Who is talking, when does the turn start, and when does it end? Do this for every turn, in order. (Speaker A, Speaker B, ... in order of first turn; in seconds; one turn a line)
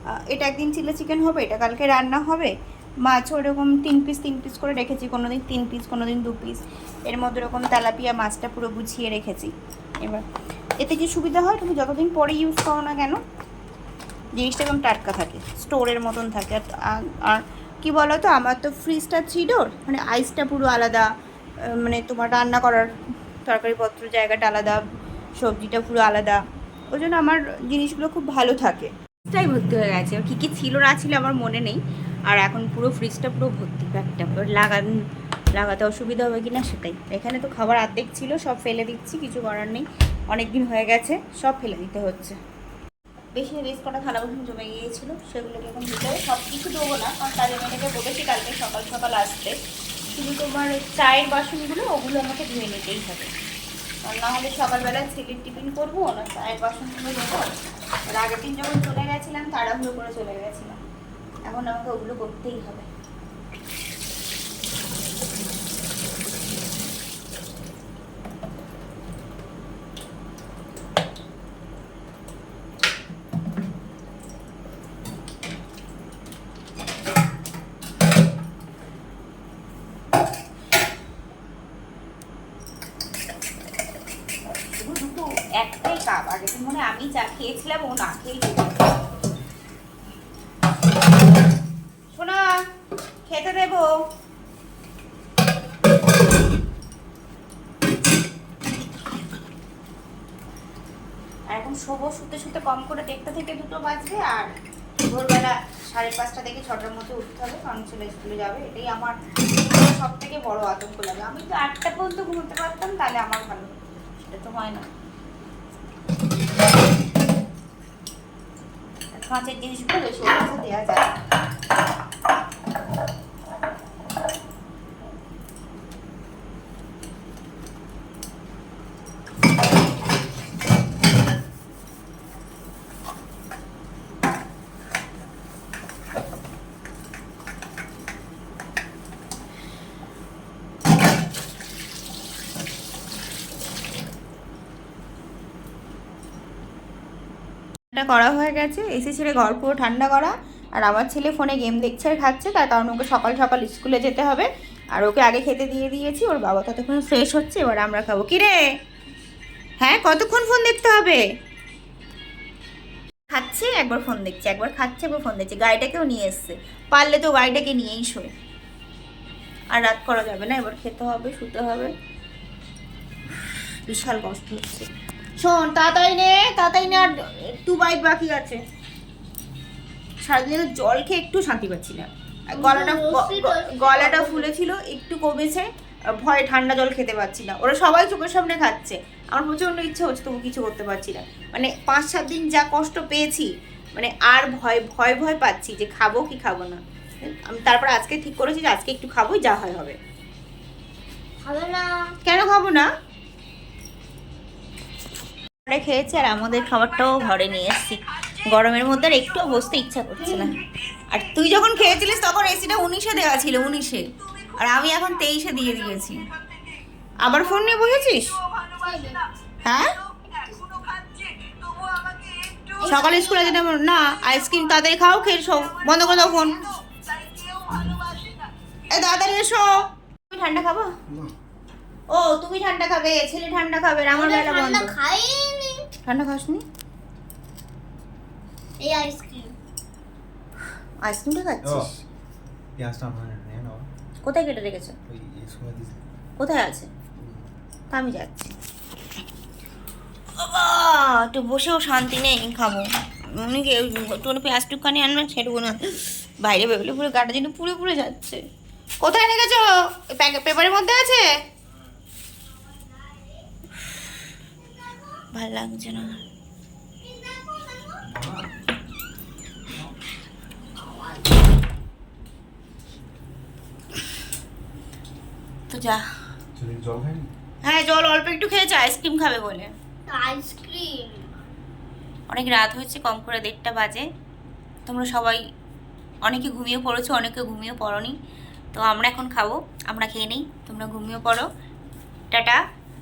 Speaker A: 0.2-2.5
Speaker A: 3.0-9.5
Speaker A: 10.8-13.2
Speaker A: 14.3-21.1
Speaker A: 21.7-22.9
Speaker A: 23.4-24.8
Speaker A: 25.4-26.4
Speaker A: 26.9-34.9
Speaker A: 35.5-42.4
Speaker A: 43.4-49.5
Speaker A: 50.1-53.3
Speaker A: 54.0-57.5
Speaker A: 58.1-60.8
Speaker A: 61.5-62.9
Speaker A: 84.8-88.8
Speaker A: 92.1-92.5
Speaker A: 93.3-93.9
Speaker A: 101.5-104.5
Speaker A: 105.1-114.8
Speaker A: 119.1-121.2
Speaker A: 147.9-158.6
Speaker A: 159.8-161.2
Speaker A: 163.3-168.3
Speaker A: 169.7-171.9
Speaker A: 173.3-178.6
Speaker A: 180.2-185.7
Speaker B: 182.6-184.5
Speaker A: 186.2-200.0
Speaker B: 201.4-202.1
Speaker A: 202.2-202.9
Speaker A: 205.7-216.3
Speaker A: 217.2-218.4
Speaker B: 218.6-219.2
Speaker A: 219.6-219.9
Speaker A: 222.8-226.7
Speaker B: 222.8-223.3
Speaker A: 228.9-230.9
Speaker A: 232.1-234.9
Speaker B: 234.1-235.9
Speaker A: 236.0-236.6
Speaker B: 238.8-239.5
Speaker A: 241.0-242.0
Speaker C: 241.6-241.9
Speaker C: 242.8-243.9
Speaker A: 244.2-244.9
Speaker C: 245.1-246.0
Speaker A: 246.4-246.9
Speaker C: 247.2-247.5
Speaker A: 247.9-248.5
Speaker A: 250.4-258.4
Speaker A: 259.0-261.3
Speaker B: 262.8-263.4
Speaker B: 264.6-265.2
Speaker A: 265.3-266.2
Speaker B: 267.0-268.1
Speaker C: 268.1-268.5
Speaker B: 270.8-271.3
Speaker A: 275.7-276.0
Speaker C: 276.5-277.3
Speaker A: 277.6-279.7
Speaker B: 280.1-281.3
Speaker A: 282.3-284.1
Speaker A: 284.9-285.4
Speaker A: 286.2-288.1
Speaker A: 288.7-291.5
Speaker A: 292.3-292.6